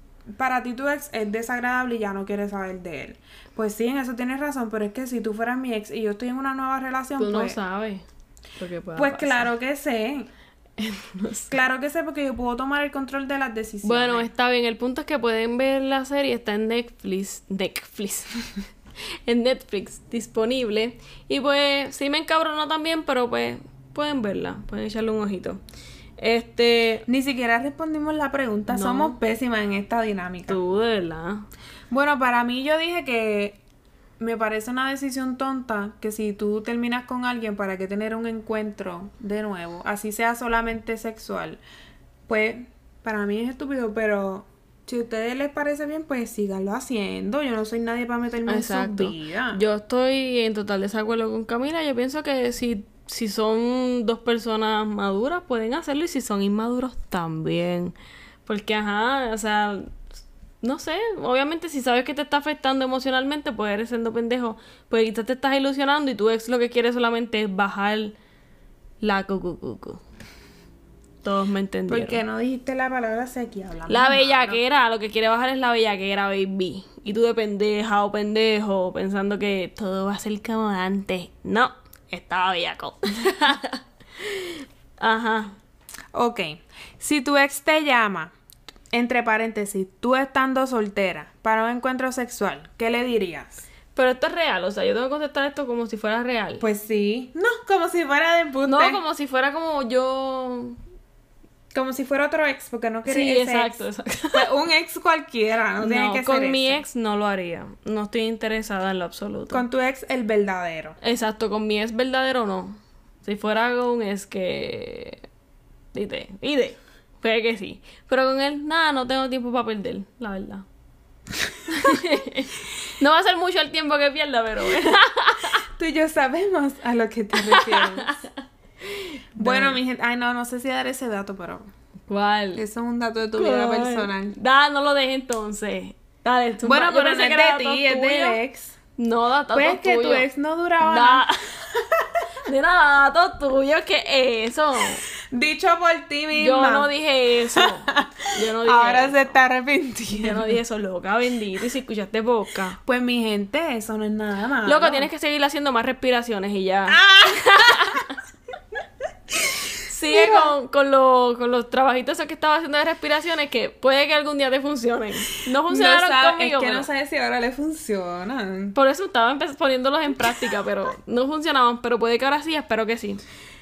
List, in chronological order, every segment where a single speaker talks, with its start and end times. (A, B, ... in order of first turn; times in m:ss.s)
0:00.3-0:07.6 A
0:07.2-0:08.0 B
0:08.6-0:09.5 B
0:09.0-0:10.3 A
0:10.8-0:11.6 B
0:11.5-0:14.3 A
0:13.8-0:18.4 B
0:19.2-0:25.6 B
0:26.2-0:27.1 B
0:27.1-0:30.6 A
0:28.7-0:29.2 B
0:30.5-0:31.5 B
0:31.9-0:33.6 A
0:34.2-0:41.6 A
0:42.3-0:49.6 A
0:48.5-0:58.0 B
0:58.5-1:00.0 B
1:00.6-1:08.2 B
1:09.0-1:10.0 B
1:11.2-1:12.2 B
1:11.9-1:14.6 A
1:13.9-1:25.6 B
1:26.1-1:28.3 A
1:28.9-1:33.5 A
1:34.0-1:36.6 B
1:36.6-1:39.0 A
1:38.7-1:40.8 B
1:41.7-1:46.8 A
1:43.1-1:44.5 B
1:45.8-1:49.6 B
1:49.5-1:51.0 A
1:51.0-1:55.2 B
1:55.9-2:00.6 B
2:01.7-2:05.6 B
2:05.7-2:08.2 A
2:07.4-2:08.3 B
2:08.8-2:09.8 B
2:09.4-2:11.7 A
2:12.1-2:12.6 B
2:12.6-2:14.4 A
2:13.4-2:18.4 B
2:16.6-2:18.8 A
2:19.0-2:20.3 B
2:19.5-2:22.2 A
2:20.8-2:21.4 B
2:22.4-2:25.1 B
2:25.3-2:26.9 A
2:26.4-2:29.3 B
2:27.6-2:30.6 A
2:30.1-2:32.8 B
2:32.8-2:35.1 A
2:34.6-2:38.2 B
2:36.9-2:38.1 A
2:39.8-2:46.9 B
2:40.1-2:40.5 A
2:45.7-2:48.8 A
2:48.8-2:53.2 B